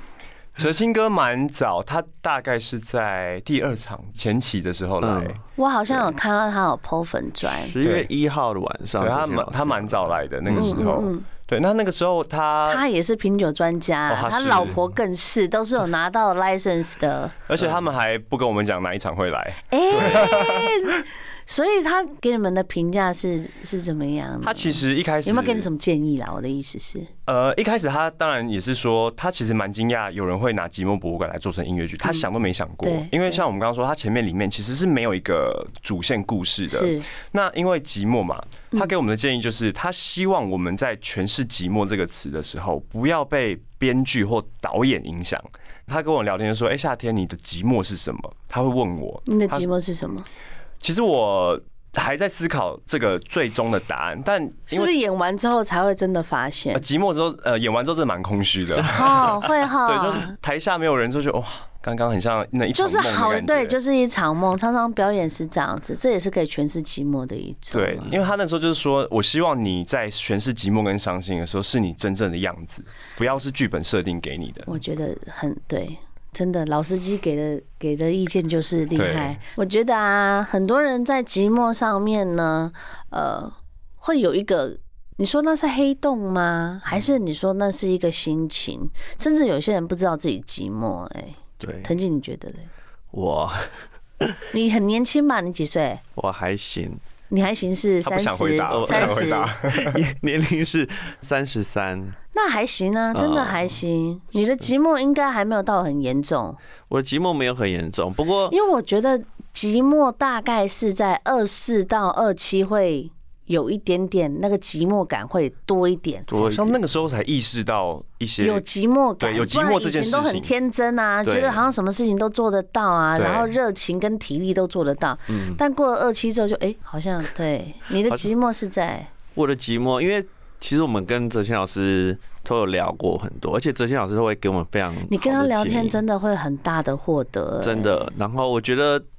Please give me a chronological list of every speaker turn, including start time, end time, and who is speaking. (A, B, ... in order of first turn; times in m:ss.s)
0:00.6-0:05.4 A
0:05.0-0:05.4 B
0:05.6-0:07.8 C
0:07.4-0:10.8 B
0:07.8-0:08.1 A
0:09.0-0:12.8 A
0:10.6-0:11.3 C
0:12.7-0:17.4 C
0:14.1-0:14.8 A
0:17.5-0:20.9 A
0:19.7-0:27.1 C
0:19.9-0:20.3 B
0:24.4-0:25.7 A
0:27.3-0:49.7 A
0:32.0-0:32.3 C
0:32.8-0:33.4 C
0:36.7-0:37.1 C
0:49.3-0:50.3 C
0:50.8-0:54.9 A
0:54.7-0:56.8 C
0:56.7-1:03.8 A
0:58.9-1:00.4 C
1:02.7-1:08.1 C
1:07.7-1:14.8 A
1:14.7-1:32.7 C
1:19.0-1:19.4 A
1:31.6-1:31.9 B
1:33.1-1:34.4 B
1:34.5-1:36.0 C
1:36.2-1:37.0 B
1:37.3-1:39.5 C
1:38.0-1:40.0 A
1:38.7-1:42.2 B
1:42.3-1:46.6 C
1:43.1-1:43.8 B
1:46.9-1:48.6 B
1:48.5-1:56.3 C
1:56.3-1:56.8 B
1:56.4-1:58.6 A
1:58.4-2:09.1 C
1:59.2-2:00.5 A
2:01.2-2:01.7 B
2:03.2-2:03.5 A
2:05.3-2:05.6 B
2:09.4-2:16.0 B
2:15.1-2:18.1 C
2:17.6-2:19.0 B